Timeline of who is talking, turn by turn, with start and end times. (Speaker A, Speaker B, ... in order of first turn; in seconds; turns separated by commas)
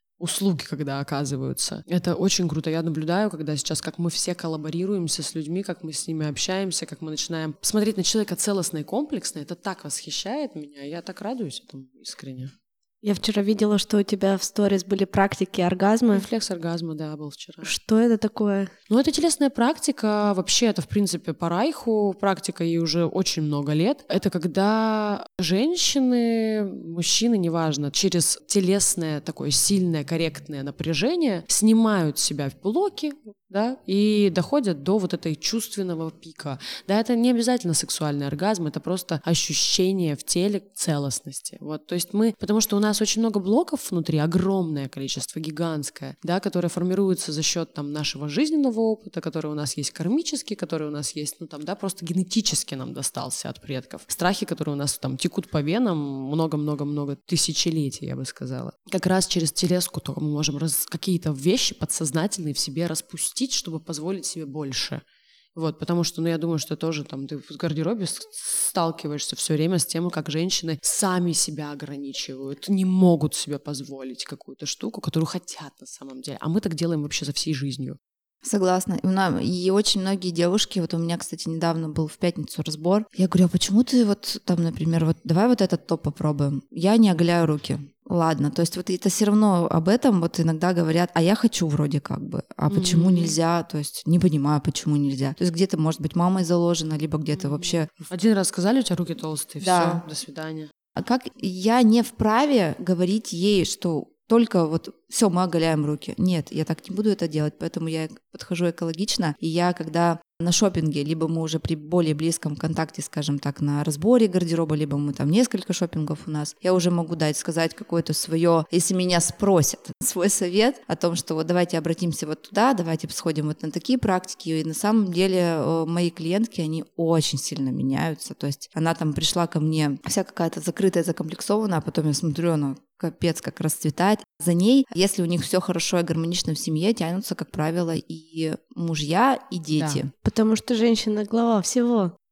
Speaker A: 0.2-12.5, Speaker B: 13.0-16.2, Speaker A: 16.1-17.7, Speaker B: 17.6-18.7, Speaker A: 18.9-65.0, Speaker A: 65.5-78.0, Speaker C: 78.4-98.0, Speaker A: 92.7-93.3, Speaker A: 97.4-100.7, Speaker C: 99.6-100.0, Speaker C: 101.0-140.1, Speaker A: 139.7-140.0, Speaker B: 140.2-142.1